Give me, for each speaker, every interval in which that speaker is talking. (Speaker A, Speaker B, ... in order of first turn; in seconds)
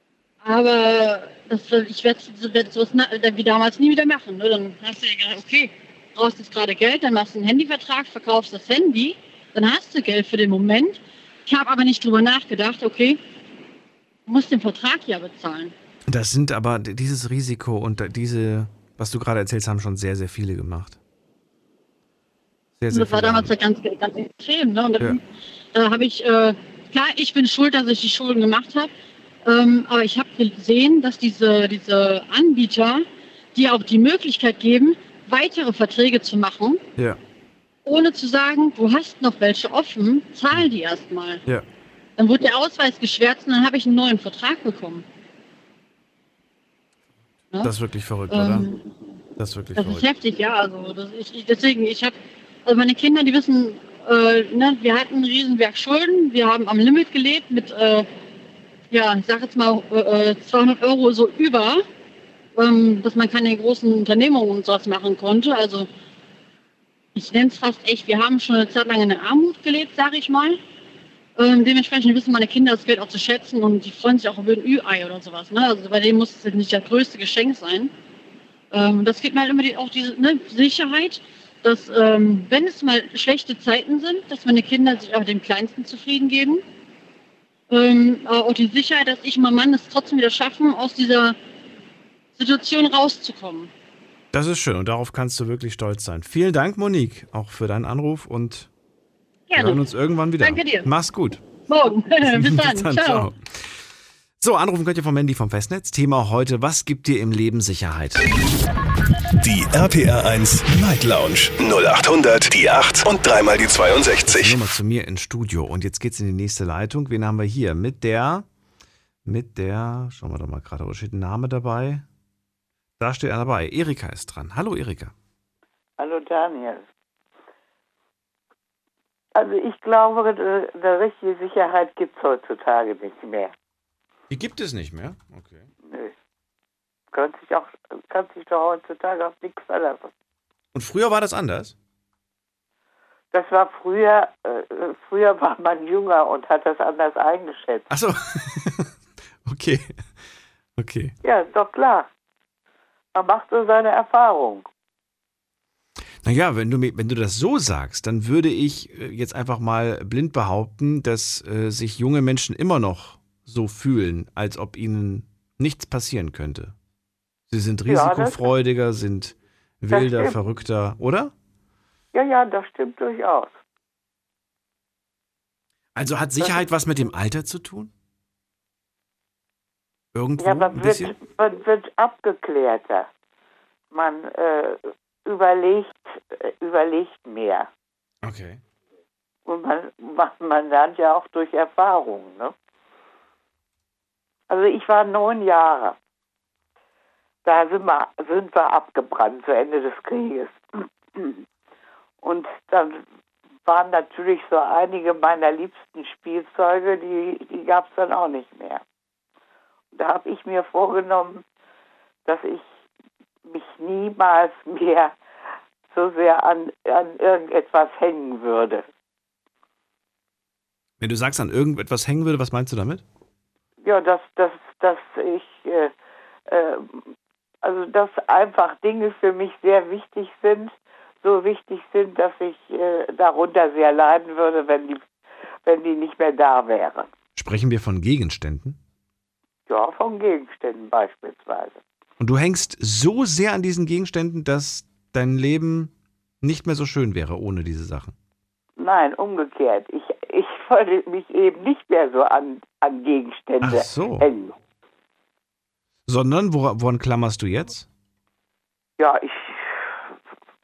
Speaker A: 0.4-13.2, 14.3-15.7, 22.9-25.2, 25.7-28.9, 29.4-36.8, 37.9-41.4, 42.2-45.0, 48.3-48.9, 49.8-58.1, 58.9-61.8, 62.6-65.9, 67.2-70.6, 71.4-77.9, 78.7-86.6, 87.7-91.4, 92.3-93.7, 99.5-99.8, 100.4-100.9, 101.7-103.3
Speaker B: 16.1-21.0, 22.8-23.5, 47.6-48.7, 49.4-50.1, 94.3-98.7, 99.5-101.4, 102.2-103.8, 104.4-108.2, 114.3-118.5, 119.2-122.0, 123.0-125.1, 134.3-135.6, 140.7-141.8, 147.9-148.9, 149.4-149.9, 150.8-151.2, 156.2-166.8, 167.5-171.3, 176.0-177.9, 180.1-181.2, 188.2-188.6, 221.0-223.0, 237.4-238.8, 242.2-248.2, 253.6-254.3, 256.1-257.9
Speaker C: 109.4-114.6
Speaker D: 126.0-126.9, 129.4-133.5, 135.8-136.1, 137.1-140.1, 143.3-147.9, 151.2-152.1, 153.1-154.7, 167.9-168.5, 169.9-170.4, 172.1-173.6, 176.4-176.7, 180.4-183.1, 183.9-187.7, 189.5-192.5, 194.5-196.0, 197.4-201.4, 202.2-203.0, 203.7-208.8, 209.9-211.4, 212.3-212.7, 213.5-215.2, 215.9-218.9, 223.8-225.9, 226.5-227.1, 227.6-235.1, 235.7-237.1, 239.7-241.8, 248.8-254.6, 259.0-259.8